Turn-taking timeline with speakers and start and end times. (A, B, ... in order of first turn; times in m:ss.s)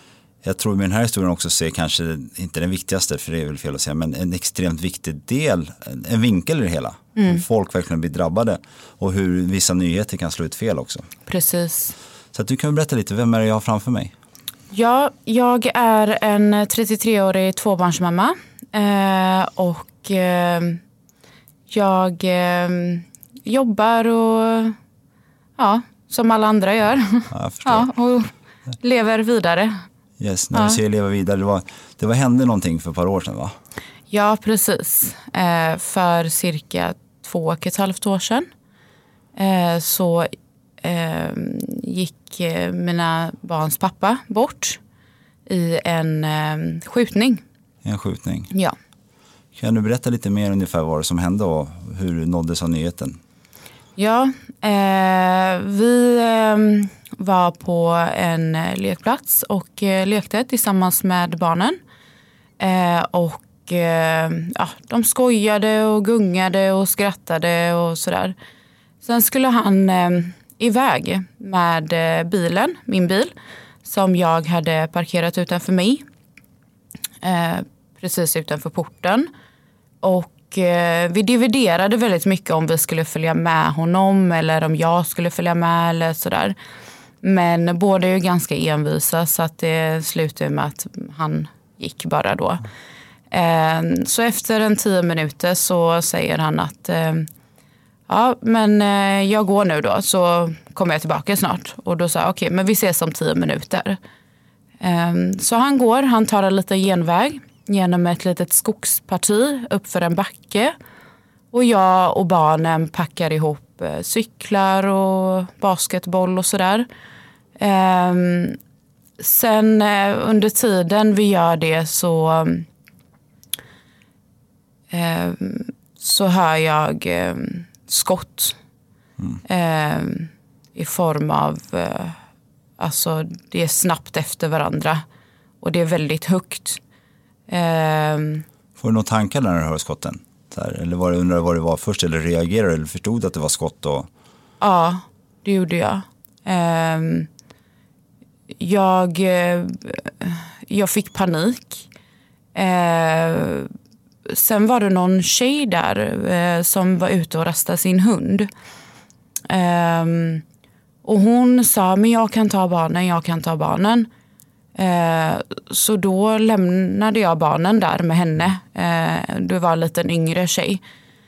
0:00.4-0:11.1 A
0:07.2-0:07.4 B
0:11.3-0:11.9 B
0:12.3-0:14.1 A
0:14.7-0:20.8 B
0:21.7-0:24.8 B
0:25.6-0:29.8 B
0:27.3-0:27.9 A
0:30.2-0:33.6 A
0:30.5-0:30.8 B
0:34.1-0:38.5 B
0:39.4-0:40.3 B
0:40.8-0:44.8 B
0:45.5-0:47.4 B
0:47.8-0:48.5 A
0:49.6-0:53.2 A
0:54.0-1:01.8 B
1:02.6-1:08.4 B
1:09.0-1:13.3 B
1:13.8-1:16.0 B
1:17.2-1:19.3 B
1:20.0-1:26.6 B
1:27.2-1:32.6 B
1:33.3-1:37.3 B
1:38.1-1:44.0 B
1:44.8-1:50.7 B
1:51.5-1:56.9 B
1:57.6-1:58.6 B
1:59.2-2:02.7 B
2:04.9-2:08.6 B
2:09.5-2:12.2 B
2:12.8-2:15.0 B
2:15.6-2:16.8 B
2:17.5-2:18.4 B
2:18.8-2:24.1 A
2:24.6-2:27.3 B
2:28.6-2:31.9 B
2:32.6-2:33.7 B
2:34.3-2:38.5 B
2:39.5-2:40.4 B
2:41.0-2:44.1 B
2:44.8-2:50.8 B